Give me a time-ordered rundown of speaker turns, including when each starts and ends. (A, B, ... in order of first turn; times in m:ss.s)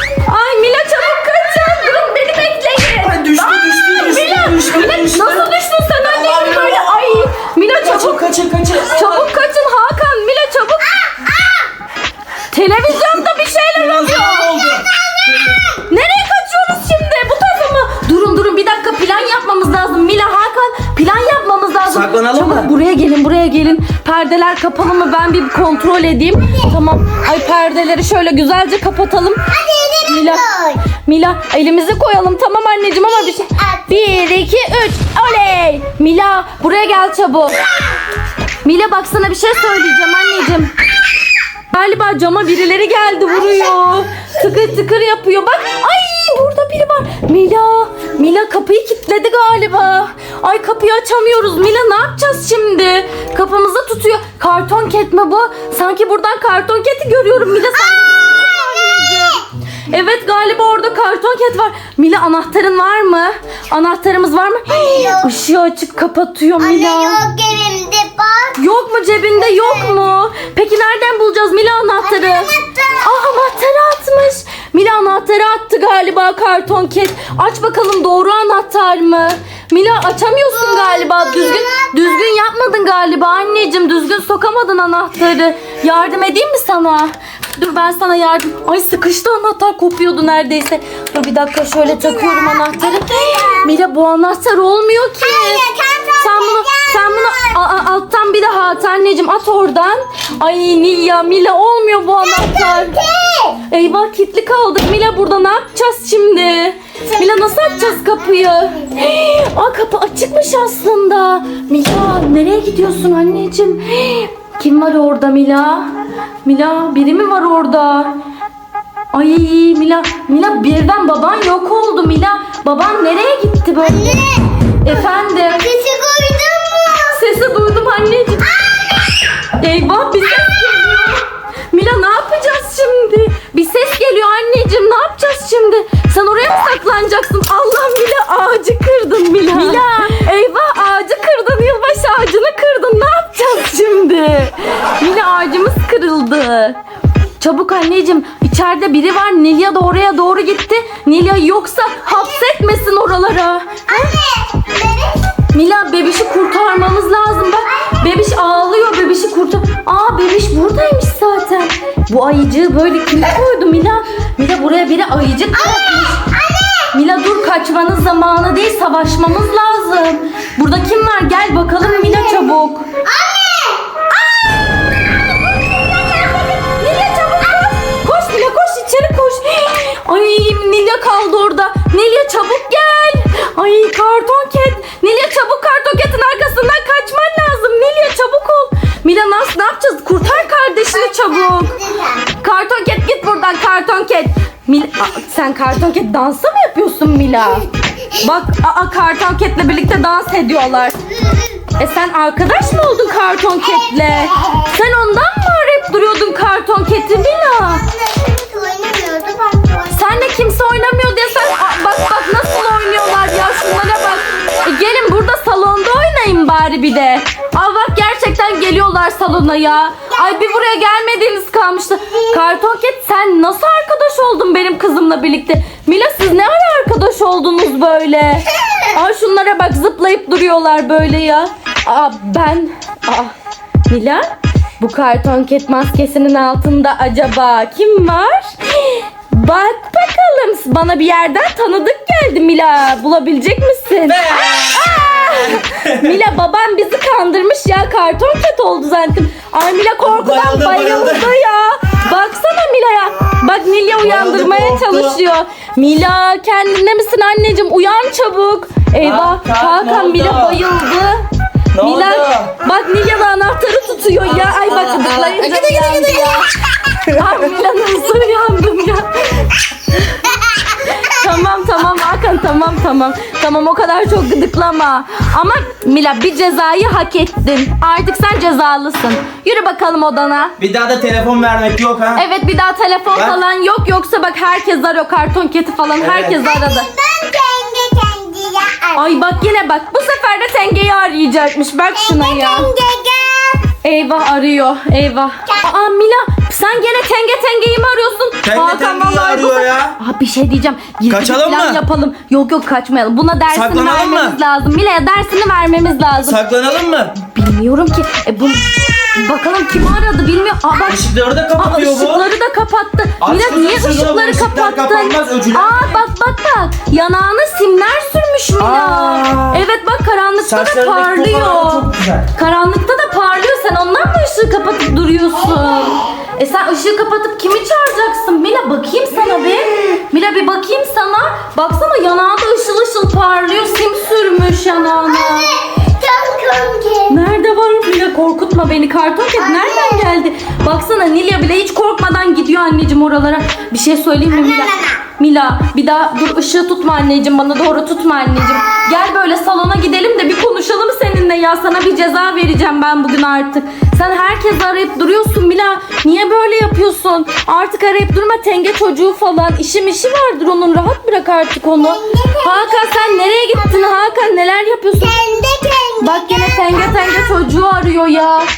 0:00.2-0:08.2 A
0:03.0-0:07.2 B
0:07.8-0:09.3 B
0:08.8-0:11.0 A
0:11.1-0:11.5 C
0:12.5-0:14.5 A
0:13.0-0:15.6 B
0:15.8-0:29.4 A
0:21.8-0:22.7 B
0:29.5-0:30.8 C
0:30.0-0:37.6 A
0:33.0-0:34.1 C
0:38.6-0:40.7 A
0:41.7-1:07.2 A
0:57.8-0:59.4 C
1:04.7-1:05.3 C
1:06.6-1:08.6 C
1:08.6-1:35.6 A
1:09.4-1:09.9 C
1:12.0-1:13.2 C
1:20.5-1:22.2 C
1:32.0-1:33.7 C
1:35.2-1:37.6 C
1:36.2-1:43.0 A
1:42.2-1:43.6 C
1:43.7-1:55.9 A
1:47.0-1:48.9 C
1:56.4-1:58.1 A
1:59.1-2:04.2 A
2:03.8-2:07.2 C
2:04.8-2:05.7 A
2:07.1-2:08.5 A
2:08.5-2:08.8 C
2:09.6-2:26.8 A
2:27.4-2:34.1 A
2:33.9-2:35.2 C
2:35.5-2:46.2 A
2:45.5-2:46.9 C
2:46.9-2:52.9 A
2:51.8-2:54.0 C
2:55.5-2:56.5 C
2:55.7-3:11.7 A
3:10.9-3:12.3 C
3:12.4-3:17.7 A
3:18.2-3:21.0 A
3:21.8-3:27.8 A
3:27.2-3:30.4 C
3:29.9-3:53.3 A
3:53.9-3:54.3 A
3:54.8-4:21.2 A
4:04.0-4:06.2 B
4:10.0-4:11.3 B
4:14.0-4:15.2 B
4:19.0-4:20.6 B
4:21.7-4:22.5 B
4:21.8-4:26.5 A
4:24.2-4:25.5 B
4:25.6-4:26.4 C
4:27.0-4:29.5 A
4:31.0-4:40.5 A
4:40.6-4:42.2 B
4:42.2-4:46.9 A
4:43.1-4:43.4 B
4:46.0-4:46.4 B
4:46.4-4:49.3 C
4:48.9-4:52.7 A
4:51.9-4:53.6 C
4:53.8-5:06.4 A
4:58.4-5:00.0 B
5:01.1-5:01.8 B
5:03.5-5:04.4 B
5:06.2-5:07.1 B
5:07.3-5:11.0 A
5:10.9-5:12.3 B
5:11.5-5:35.5 A
5:13.2-5:16.0 B
5:18.6-5:19.6 B
5:20.4-5:22.3 B
5:35.0-5:37.2 C
5:37.1-6:05.2 A
5:39.4-5:40.1 C
5:44.3-5:45.0 C
6:01.8-6:04.0 C
6:05.0-6:07.4 C
6:06.0-6:08.5 A